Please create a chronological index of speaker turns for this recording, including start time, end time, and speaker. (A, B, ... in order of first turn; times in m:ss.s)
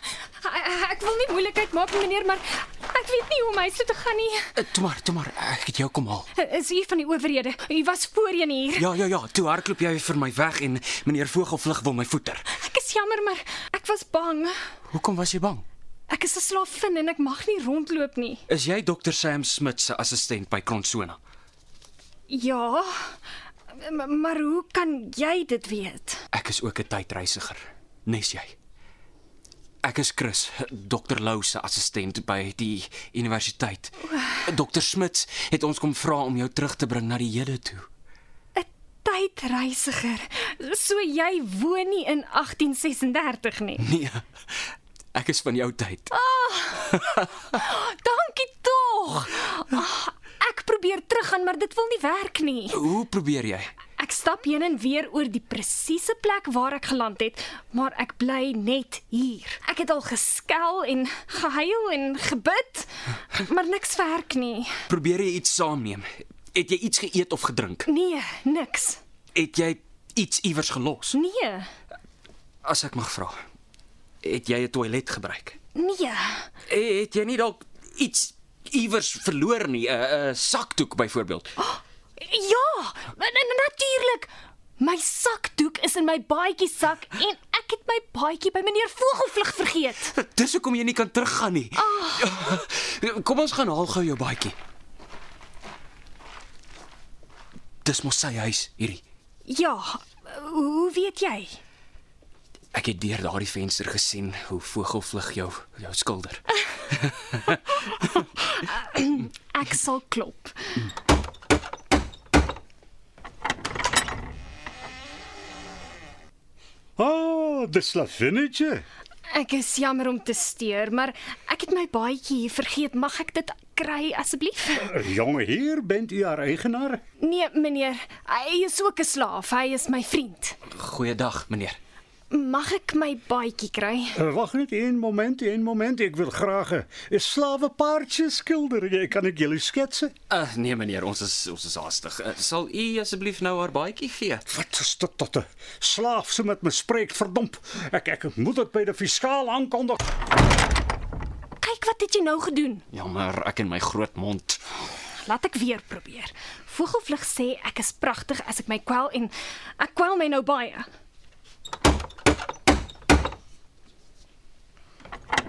0:00.4-0:04.5 A
0:04.6-0:06.3 B
0:06.4-0:08.9 A
0:08.8-0:12.5 B
0:12.5-0:14.6 A
0:14.9-0:15.7 B
0:16.1-0:18.4 A
0:18.5-0:21.2 B
0:22.3-0:23.2 A
0:23.8-0:26.2 A
0:26.3-0:28.6 B
0:29.8-0:37.9 B
0:34.0-0:34.5 A
0:38.6-0:43.8 A
0:43.8-0:44.3 B
0:45.1-0:46.1 B
0:46.1-0:52.8 A
0:46.9-0:47.2 B
0:52.7-0:53.7 B
0:54.0-1:04.8 A
1:04.9-1:07.9 B
1:07.9-1:09.0 A
1:09.3-1:11.2 B
1:11.1-1:11.7 A
1:12.6-1:13.4 B
1:14.2-1:15.6 B
1:15.7-1:16.5 A
1:16.7-1:21.5 B
1:21.6-1:30.1 A
1:30.1-1:34.6 B
1:31.8-1:32.4 A
1:37.8-1:39.0 B
1:39.5-1:41.6 A
1:42.7-1:47.6 B
1:48.5-1:50.6 A
1:57.0-1:58.8 C
1:59.3-2:04.9 A
2:04.8-2:07.0 C
2:07.2-2:10.6 A
2:10.7-2:11.8 B
2:12.3-2:14.2 A
2:14.2-2:20.1 C
2:20.3-2:24.5 B
2:24.5-2:30.0 C
2:31.6-2:32.8 A
2:32.9-2:34.6 B
2:35.2-2:40.9 A